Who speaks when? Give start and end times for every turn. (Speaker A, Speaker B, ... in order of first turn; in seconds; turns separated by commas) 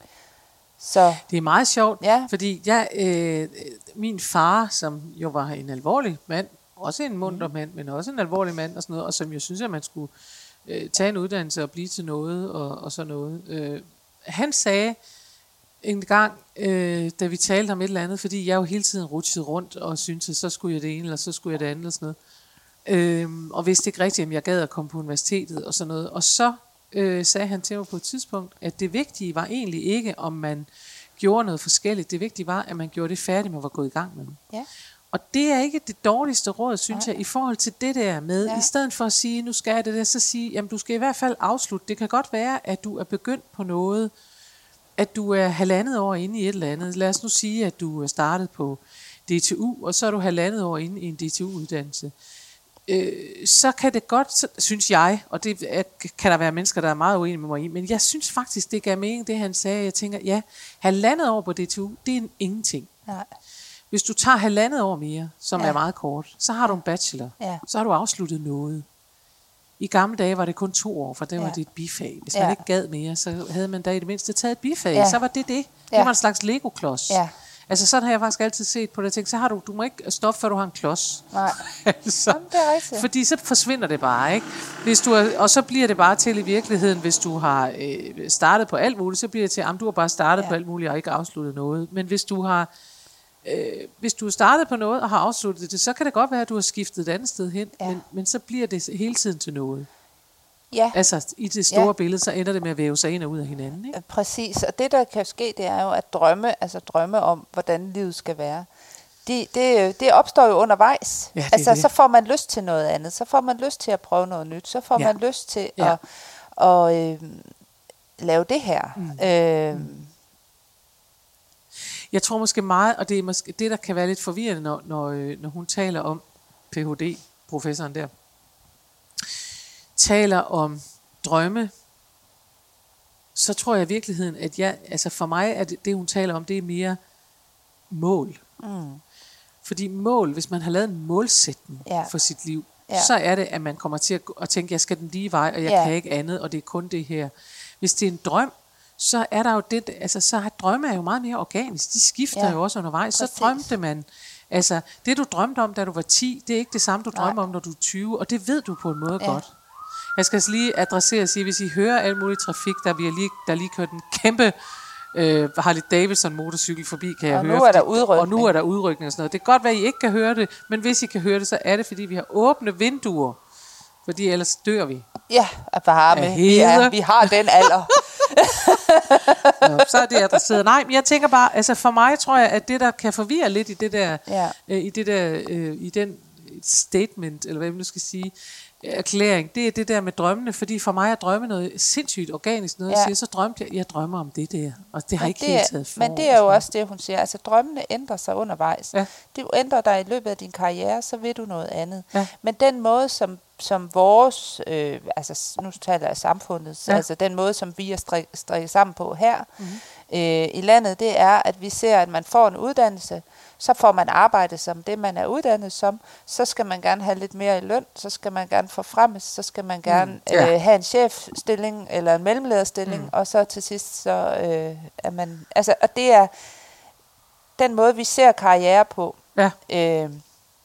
Speaker A: 0.8-1.2, Speaker B: 1.3-10.1, Speaker A: 2.0-2.3, Speaker B: 10.7-15.0, Speaker B: 15.8-22.2, Speaker B: 22.9-34.4, Speaker B: 35.1-44.1, Speaker A: 38.4-38.7, Speaker B: 45.0-52.1, Speaker B: 52.9-62.9, Speaker B: 63.9-68.9, Speaker B: 69.8-92.7, Speaker A: 72.3-72.6, Speaker A: 75.0-75.2, Speaker A: 81.3-81.6, Speaker A: 82.3-83.1, Speaker B: 93.4-99.9, Speaker A: 100.7-101.0, Speaker B: 100.9-104.0, Speaker A: 103.9-108.7, Speaker A: 109.2-117.5, Speaker B: 111.3-111.9, Speaker A: 118.2-120.1, Speaker B: 119.0-120.0, Speaker B: 121.8-128.1, Speaker B: 129.9-131.7, Speaker B: 133.3-137.0, Speaker B: 137.9-138.4, Speaker A: 138.6-139.0, Speaker B: 139.6-159.5, Speaker A: 141.9-142.1, Speaker A: 145.7-145.9, Speaker A: 153.2-153.7, Speaker B: 160.2-173.4, Speaker A: 167.3-168.5, Speaker B: 174.1-175.1, Speaker A: 175.3-180.4, Speaker B: 176.1-177.7, Speaker B: 178.7-196.6, Speaker A: 184.3-184.6, Speaker A: 195.2-226.3, Speaker B: 219.9-220.5, Speaker B: 222.9-223.1, Speaker A: 227.6-230.2